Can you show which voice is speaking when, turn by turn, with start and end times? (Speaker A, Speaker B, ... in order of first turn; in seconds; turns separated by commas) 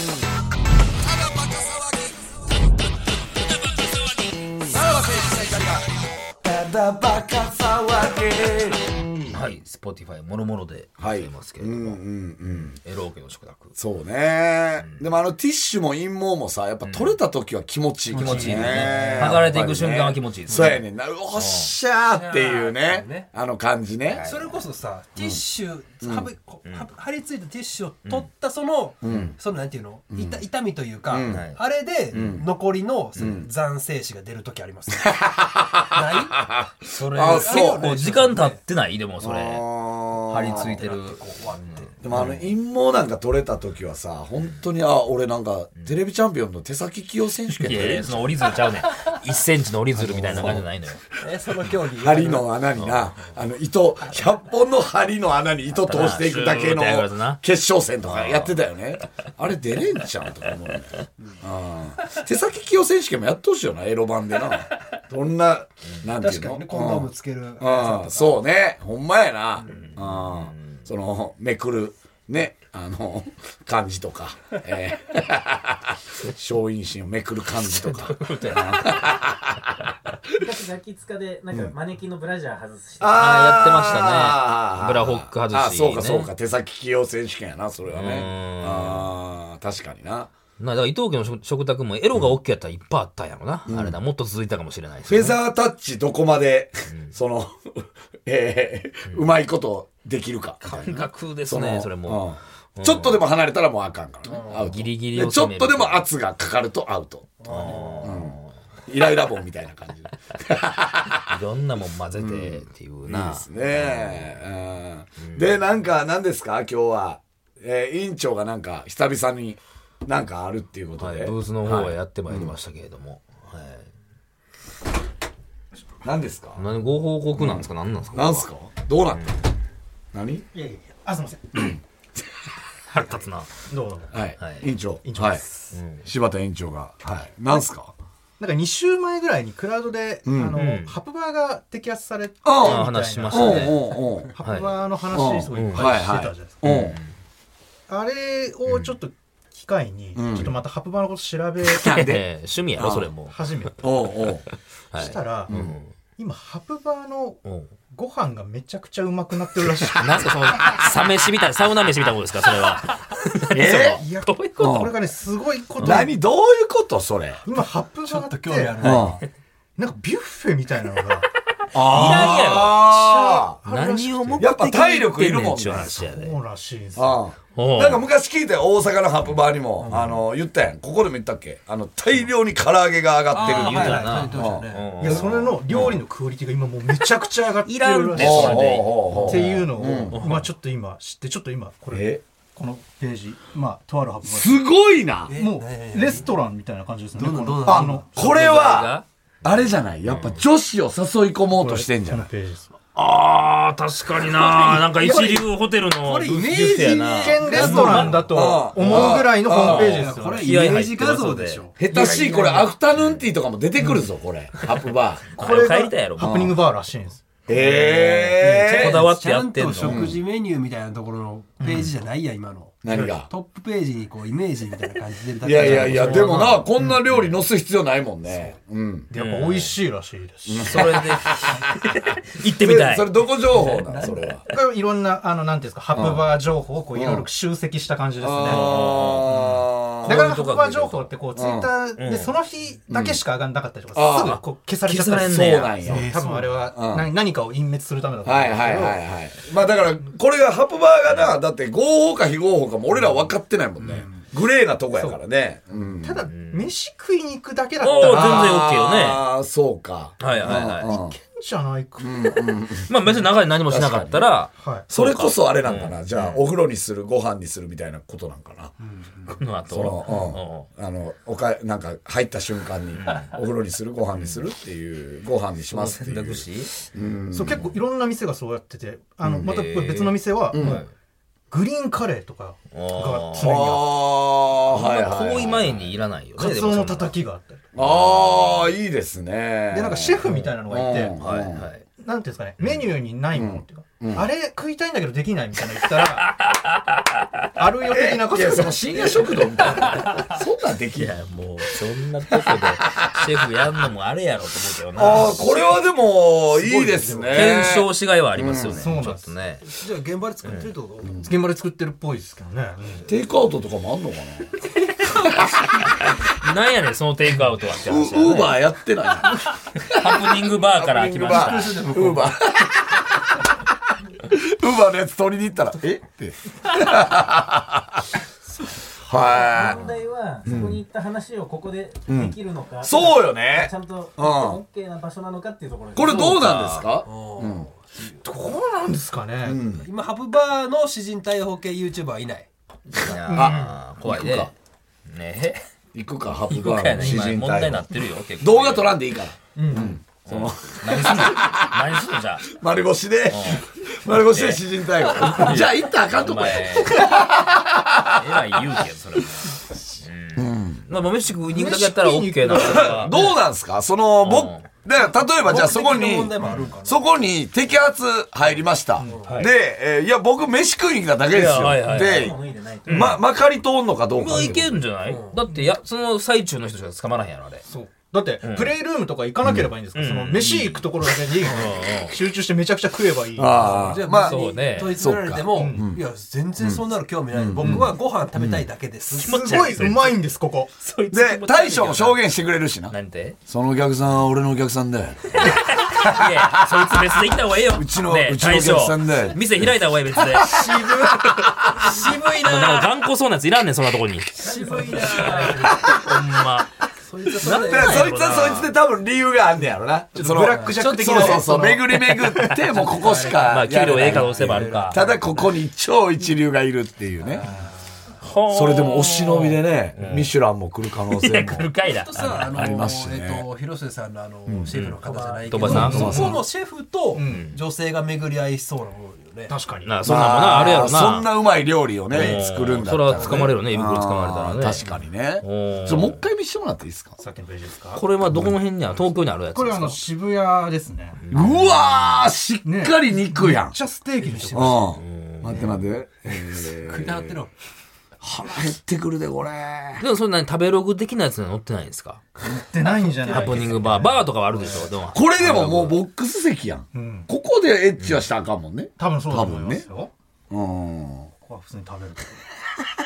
Speaker A: 1.2-1.9, Speaker A: 4.7-9.1, Speaker B: 9.3-13.7, Speaker A: 11.0-12.8, Speaker A: 13.8-24.3, Speaker B: 16.8-17.2, Speaker C: 18.1-19.3, Speaker B: 18.1-21.7, Speaker C: 22.1-23.3, Speaker B: 24.1-24.6, Speaker C: 24.2-36.6, Speaker A: 26.0-26.3, Speaker A: 29.0-29.4, Speaker A: 30.1-30.4, Speaker A: 31.1-31.5, Speaker B: 31.3-31.6, Speaker A: 32.1-32.5, Speaker A: 33.2-33.5, Speaker A: 35.3-35.8, Speaker A: 36.5-37.8, Speaker B: 36.9-39.7, Speaker C: 37.2-38.6, Speaker A: 39.2-40.8, Speaker B: 40.2-42.5, Speaker C: 40.3-41.9, Speaker A: 42.0-48.3, Speaker B: 47.6-51.0, Speaker A: 50.1-50.6, Speaker C: 50.1-50.6, Speaker C: 51.1-52.6, Speaker A: 52.0-79.6, Speaker B: 52.8-53.2, Speaker B: 55.7-57.4, Speaker B: 58.0-58.6, Speaker C: 66.1-68.2, Speaker B: 69.7-70.8, Speaker B: 77.6-79.1, Speaker D: 80.3-83.7, Speaker A: 83.0-90.3, Speaker B: 83.1-86.3, Speaker B: 87.9-89.1, Speaker B: 90.6-95.4, Speaker A: 93.7-94.0, Speaker A: 95.1-107.4, Speaker B: 96.9-97.2, Speaker B: 100.6-103.2, Speaker C: 104.2-104.7, Speaker B: 104.7-106.0, Speaker C: 107.4-108.2, Speaker B: 107.5-108.5, Speaker A: 108.0-111.3, Speaker B: 111.2-114.4, Speaker A: 112.2-122.5, Speaker B: 115.2-115.6, Speaker B: 121.0-123.9, Speaker A: 126.0-126.6, Speaker B: 126.6-128.5, Speaker A: 127.3-129.3, Speaker B: 129.1-129.4, Speaker A: 130.1-130.5, Speaker E: 130.5-131.8, Speaker B: 132.9-133.5, Speaker E: 133.7-134.1, Speaker A: 134.1-135.4, Speaker B: 134.4-134.7, Speaker E: 135.0-135.7, Speaker B: 135.7-136.1, Speaker A: 136.0-137.9, Speaker E: 138.4-146.6, Speaker A: 140.3-140.6, Speaker B: 140.6-141.0, Speaker A: 142.4-144.3, Speaker B: 142.6-143.8, Speaker B: 144.4-144.8, Speaker A: 145.1-147.0, Speaker B: 145.5-145.9, Speaker B: 146.6-147.1, Speaker E: 147.9-151.9, Speaker A: 150.2-150.6, Speaker A: 151.7-153.1, Speaker B: 151.8-153.4, Speaker E: 153.3-153.9, Speaker A: 153.8-154.4, Speaker B: 154.9-155.9, Speaker E: 154.9-155.5, Speaker A: 155.5-155.8, Speaker E: 156.2-157.4, Speaker B: 157.4-157.7, Speaker E: 157.9-160.3, Speaker B: 159.9-164.9, Speaker A: 163.5-164.0, Speaker E: 163.9-166.1, Speaker A: 164.6-164.9, Speaker A: 165.8-167.4, Speaker E: 167.4-169.1, Speaker C: 168.1-169.2, Speaker A: 168.8-169.2, Speaker E: 169.8-171.3, Speaker A: 171.7-173.6, Speaker B: 171.8-172.8, Speaker E: 171.8-174.6, Speaker B: 173.7-176.4, Speaker A: 174.4-176.1, Speaker E: 175.7-177.3, Speaker A: 177.0-186.0, Speaker B: 177.6-178.1, Speaker C: 179.8-180.2, Speaker C: 183.3-185.2, Speaker B: 183.4-185.9, Speaker E: 183.7-184.2, Speaker E: 185.0-194.6, Speaker B: 187.7-190.5, Speaker A: 188.2-190.2, Speaker A: 191.9-192.2, Speaker A: 194.2-195.4, Speaker C: 195.3-196.4, Speaker E: 195.4-198.1, Speaker C: 197.1-198.4, Speaker A: 197.7-202.3, Speaker B: 198.2-200.4, Speaker E: 201.5-202.7, Speaker B: 202.9-211.7, Speaker E: 204.4-205.5, Speaker C: 206.0-208.4, Speaker E: 207.2-210.5, Speaker A: 208.3-210.1, Speaker C: 209.6-212.0, Speaker A: 211.8-215.2, Speaker E: 211.9-212.7, Speaker B: 213.0-213.2, Speaker B: 214.6-216.5, Speaker E: 215.4-217.2, Speaker A: 216.2-216.6, Speaker A: 217.5-219.1, Speaker B: 217.5-220.1, Speaker C: 218.4-226.7, Speaker E: 218.4-219.0, Speaker A: 219.8-220.2, Speaker E: 221.6-221.9, Speaker A: 222.8-223.3, Speaker E: 222.9-223.2, Speaker A: 225.4-229.1, Speaker E: 225.6-226.6, Speaker B: 225.6-226.2, Speaker E: 229.1-230.9, Speaker B: 229.1-229.8, Speaker A: 230.4-231.7, Speaker B: 230.6-233.3, Speaker A: 232.5-234.4, Speaker C: 233.5-234.4, Speaker E: 234.5-239.4, Speaker A: 235.9-236.3, Speaker A: 236.9-237.3, Speaker A: 238.2-240.3, Speaker B: 238.4-241.2, Speaker E: 240.1-249.0, Speaker A: 241.3-241.7, Speaker B: 242.0-242.3, Speaker A: 242.9-243.2, Speaker A: 243.9-246.1, Speaker B: 244.2-245.8, Speaker C: 245.9-246.6, Speaker A: 246.7-247.1, Speaker A: 248.2-256.3, Speaker E: 254.9-255.2, Speaker E: 256.0-258.5, Speaker B: 256.3-256.7, Speaker B: 257.8-259.2, Speaker A: 258.0-261.2, Speaker B: 260.2-260.9, Speaker E: 260.8-262.6, Speaker A: 262.0-262.9, Speaker B: 262.9-266.4, Speaker A: 263.7-264.3, Speaker E: 264.6-264.9, Speaker A: 264.9-268.7, Speaker C: 269.0-269.3, Speaker B: 269.4-270.7, Speaker A: 269.7-277.7, Speaker B: 273.0-273.4, Speaker B: 274.2-274.4, Speaker B: 275.7-276.7, Speaker E: 277.3-280.8, Speaker A: 279.2-279.6, Speaker B: 279.4-280.9, Speaker A: 280.5-280.8, Speaker E: 281.5-284.0, Speaker B: 282.7-283.5, Speaker A: 283.4-285.9, Speaker B: 284.7-287.1, Speaker E: 286.4-287.7, Speaker A: 287.8-291.7, Speaker B: 287.8-288.2, Speaker E: 289.7-291.2, Speaker B: 291.2-291.9, Speaker E: 292.0-296.3, Speaker B: 292.6-292.9, Speaker A: 293.3-294.3, Speaker B: 296.0-297.1, Speaker E: 297.6-299.2, Speaker A: 297.9-301.2, Speaker B: 299.6-300.3, Speaker B: 300.9-305.4, Speaker A: 302.3-303.6, Speaker A: 305.0-308.9, Speaker C: 305.2-305.4, Speaker C: 306.5-307.5, Speaker B: 307.3-309.7, Speaker E: 308.7-309.3, Speaker C: 309.6-311.2, Speaker B: 310.4-310.7, Speaker E: 311.1-313.1, Speaker A: 313.1-314.6, Speaker A: 315.2-315.8, Speaker B: 315.7-318.7, Speaker A: 317.7-323.5, Speaker B: 319.7-321.8, Speaker C: 321.3-322.4, Speaker A: 324.2-328.1, Speaker A: 328.9-329.8, Speaker D: 329.3-336.3, Speaker A: 330.4-330.8, Speaker A: 332.1-334.6, Speaker A: 335.9-337.7, Speaker B: 336.0-336.9, Speaker C: 337.0-338.1, Speaker E: 338.2-339.6, Speaker A: 339.4-339.9, Speaker C: 339.8-342.5, Speaker B: 342.9-344.5, Speaker E: 343.0-343.7, Speaker A: 343.3-344.5, Speaker B: 345.1-345.6, Speaker A: 345.9-358.8, Speaker B: 346.5-349.0, Speaker E: 349.6-350.0, Speaker B: 350.2-352.5, Speaker B: 353.3-357.3, Speaker B: 358.1-363.2, Speaker A: 360.4-360.9, Speaker E: 361.5-363.3, Speaker A: 362.5-374.9, Speaker B: 364.2-364.7, Speaker C: 365.2-367.1, Speaker E: 369.0-369.4, Speaker C: 369.1-369.4, Speaker B: 371.3-373.2, Speaker D: 371.9-373.2, Speaker B: 374.1-377.6, Speaker C: 375.0-375.4, Speaker E: 377.7-384.1, Speaker B: 378.4-378.8, Speaker A: 379.4-379.7, Speaker B: 379.9-382.2, Speaker A: 383.4-386.0, Speaker C: 383.7-389.7, Speaker B: 384.2-385.0, Speaker E: 385.5-385.8, Speaker A: 386.6-388.7, Speaker E: 387.6-387.9, Speaker E: 389.1-390.7, Speaker B: 389.1-390.2, Speaker B: 390.8-392.2, Speaker A: 391.1-392.9, Speaker B: 392.9-393.4, Speaker A: 393.5-397.0, Speaker B: 395.3-406.7, Speaker A: 397.6-399.4, Speaker A: 400.1-400.7, Speaker C: 400.5-401.2, Speaker C: 401.8-402.9, Speaker C: 404.4-406.1, Speaker D: 404.5-405.7, Speaker A: 405.7-405.9, Speaker C: 407.0-408.0, Speaker B: 407.4-408.7, Speaker A: 407.5-417.5, Speaker E: 410.1-412.6, Speaker C: 410.4-411.4, Speaker C: 412.7-415.6, Speaker B: 413.1-415.0, Speaker C: 417.2-417.9, Speaker B: 418.2-420.3, Speaker A: 418.5-421.7, Speaker B: 421.1-422.7, Speaker C: 421.8-429.5, Speaker A: 422.4-423.4, Speaker A: 424.5-424.7, Speaker B: 424.7-426.4, Speaker D: 425.0-425.7, Speaker E: 425.6-426.4, Speaker A: 425.6-426.4, Speaker E: 427.1-427.5, Speaker B: 427.3-427.6, Speaker E: 429.5-430.0, Speaker B: 429.8-431.3, Speaker A: 430.0-437.2, Speaker B: 432.1-436.3, Speaker C: 432.1-432.5, Speaker C: 433.1-433.5, Speaker E: 437.2-438.0, Speaker B: 437.9-440.0, Speaker E: 439.5-441.2, Speaker B: 441.2-442.3, Speaker A: 441.3-443.8, Speaker E: 442.6-444.8, Speaker C: 444.2-444.9, Speaker A: 444.5-447.4, Speaker B: 444.9-445.9, Speaker C: 446.6-447.5, Speaker A: 448.2-450.1, Speaker B: 450.0-452.2, Speaker E: 452.4-454.9, Speaker C: 452.9-453.9, Speaker B: 453.2-456.0, Speaker A: 455.1-459.9, Speaker E: 456.9-457.3, Speaker B: 458.0-458.3, Speaker E: 459.0-460.1, Speaker A: 460.5-461.3, Speaker E: 461.4-462.4